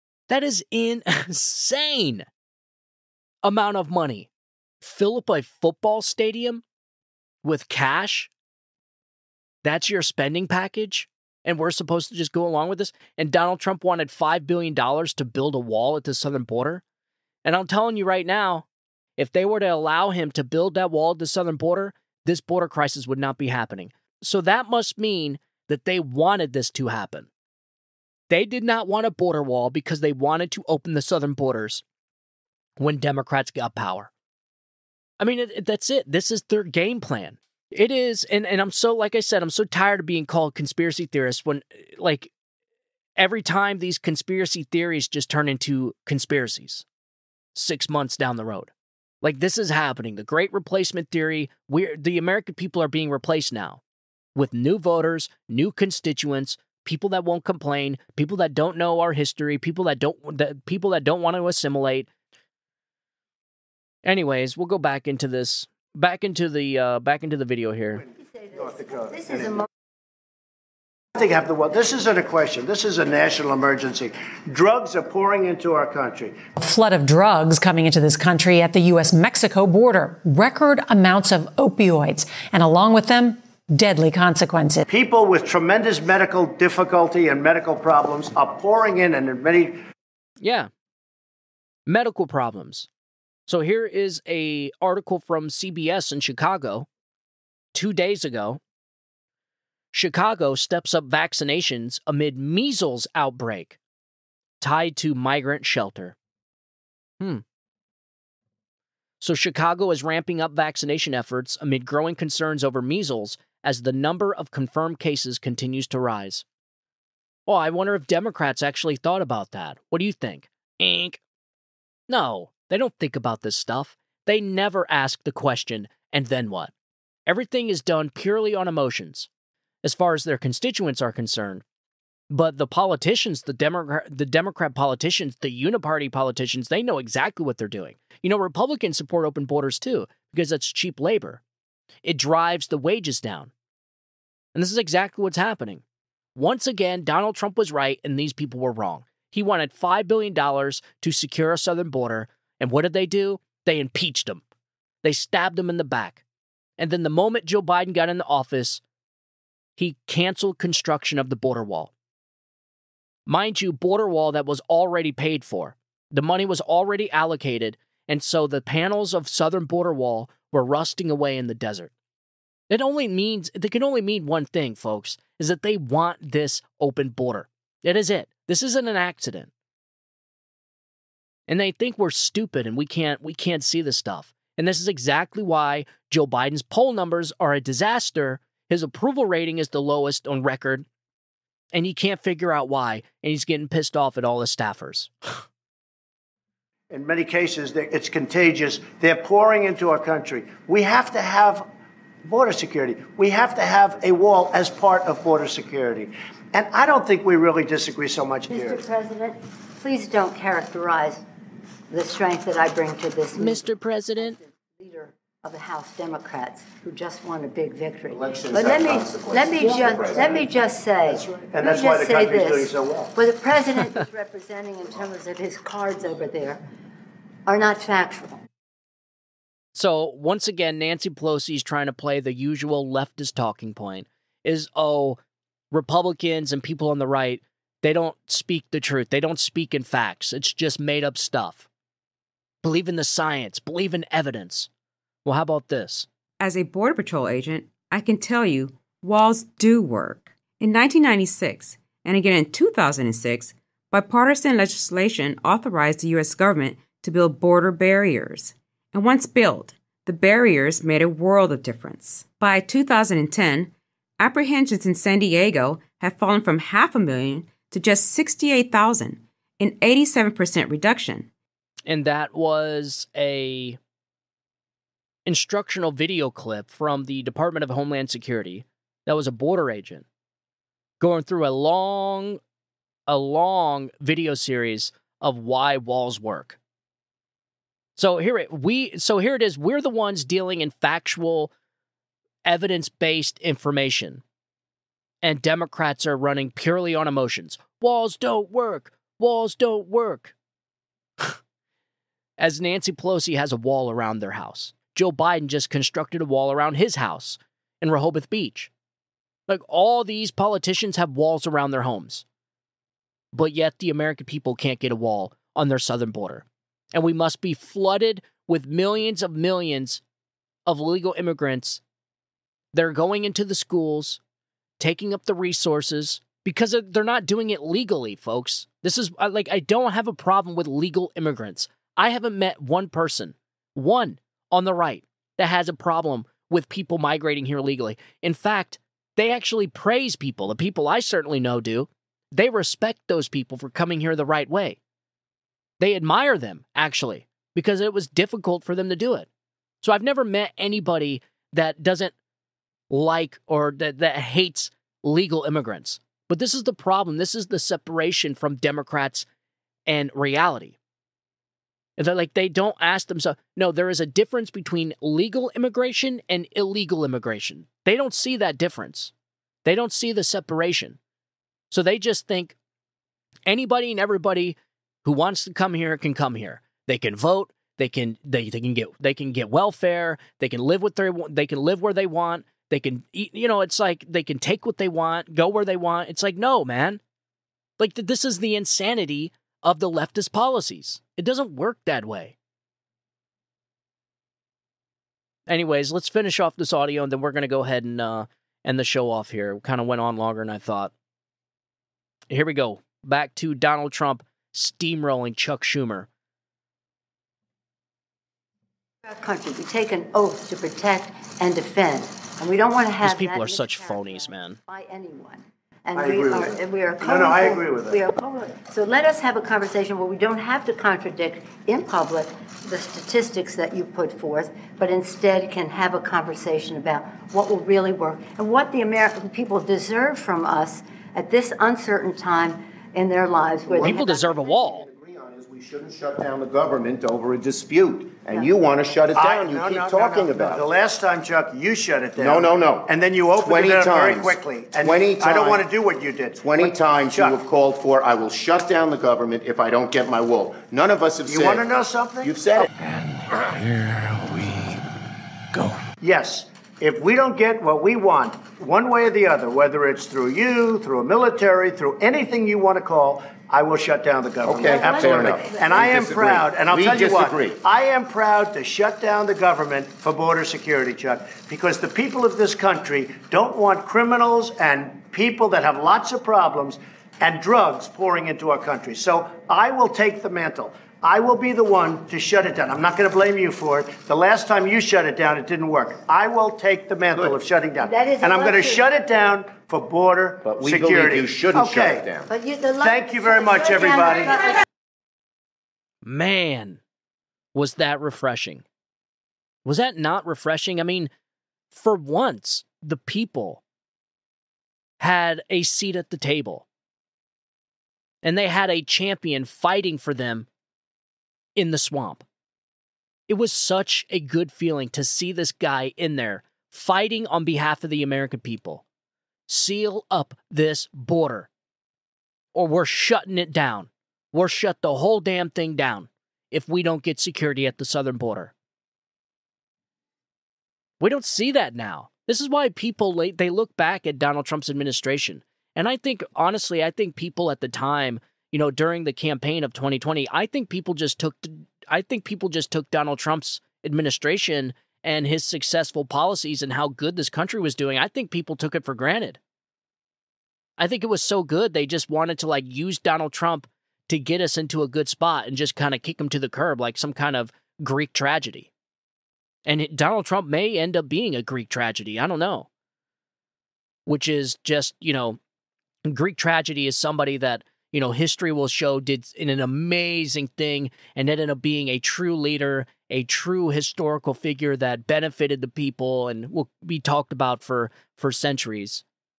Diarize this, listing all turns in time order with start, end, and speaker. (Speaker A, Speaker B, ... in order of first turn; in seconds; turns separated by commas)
Speaker A: 0.3-2.3, Speaker A: 3.4-4.3, Speaker A: 4.8-6.6, Speaker A: 7.4-8.3, Speaker A: 9.6-16.8, Speaker A: 17.4-18.7, Speaker A: 19.2-27.3, Speaker A: 28.3-31.8, Speaker A: 32.8-34.1, Speaker A: 35.2-42.3, Speaker A: 43.2-46.9, Speaker A: 47.5-53.8, Speaker A: 54.4-62.1, Speaker A: 64.0-68.0, Speaker B: 68.4-69.7, Speaker C: 68.5-69.6, Speaker C: 71.2-76.4, Speaker D: 76.6-84.8, Speaker C: 84.9-89.8, Speaker A: 90.4-90.7, Speaker A: 91.9-92.9, Speaker A: 93.5-96.9, Speaker A: 97.7-98.6, Speaker A: 99.9-103.8, Speaker A: 104.6-106.2, Speaker A: 109.2-116.5, Speaker A: 117.5-121.2, Speaker A: 122.1-126.7, Speaker A: 127.3-129.3, Speaker A: 129.8-131.6, Speaker A: 132.3-141.4, Speaker A: 142.0-143.5, Speaker A: 144.6-145.8, Speaker A: 146.3-154.4, Speaker A: 155.0-156.2, Speaker A: 156.8-158.8, Speaker A: 159.8-161.9, Speaker A: 163.3-171.9, Speaker A: 172.7-179.5, Speaker A: 181.5-190.9, Speaker A: 191.7-195.1, Speaker C: 196.9-201.7, Speaker C: 202.2-208.8, Speaker B: 208.5-211.2, Speaker B: 211.9-213.7, Speaker A: 213.3-214.4, Speaker B: 214.2-226.6, Speaker E: 218.1-220.4, Speaker C: 219.4-220.3, Speaker C: 221.1-223.1, Speaker B: 227.5-228.4, Speaker A: 229.8-235.2, Speaker A: 235.7-241.7, Speaker A: 242.6-244.7, Speaker A: 245.2-246.1, Speaker F: 246.4-271.3, Speaker A: 271.9-273.8, Speaker A: 275.3-280.1, Speaker A: 281.0-282.4, Speaker A: 283.1-286.6, Speaker A: 288.0-291.5, Speaker A: 292.4-294.2, Speaker A: 295.2-300.3, Speaker A: 302.4-308.7, Speaker A: 309.5-312.2, Speaker A: 313.3-320.0, Speaker A: 320.7-321.8, Speaker A: 322.7-324.2, Speaker A: 324.8-344.8, Speaker A: 345.8-349.3, Speaker A: 349.8-352.1, Speaker A: 352.9-359.3, Speaker A: 359.9-360.8, Speaker A: 362.0-369.1, Speaker A: 369.6-371.0, Speaker A: 371.7-372.6, Speaker A: 373.5-387.0, Speaker A: 387.8-392.4, Speaker A: 395.5-400.9, Speaker A: 402.3-406.1, Speaker B: 409.0-434.2, Speaker A: 413.0-414.6, Speaker C: 415.9-418.0, Speaker E: 433.6-440.7, Speaker A: 433.8-434.9, Speaker C: 439.1-447.4, Speaker E: 442.2-445.7, Speaker E: 446.4-451.7, Speaker C: 451.3-452.7, Speaker E: 452.2-452.7, Speaker C: 456.0-492.1, Speaker E: 464.4-467.6, Speaker B: 464.7-465.8, Speaker E: 487.1-487.4, Speaker B: 487.8-488.9, Speaker E: 490.4-492.3, Speaker B: 492.3-494.6, Speaker C: 492.8-494.5, Speaker A: 496.0-496.8, Speaker A: 497.5-498.6, Speaker A: 499.6-501.1, Speaker A: 501.7-503.6, Speaker A: 505.0-506.7, Speaker A: 508.2-510.5, Speaker A: 511.6-512.2, Speaker A: 513.3-518.8, Speaker A: 519.5-521.5, Speaker A: 522.5-528.5, Speaker A: 531.0-549.4, Speaker A: 550.8-558.7, Speaker A: 559.6-562.7, Speaker A: 564.1-565.4, Speaker A: 566.1-579.0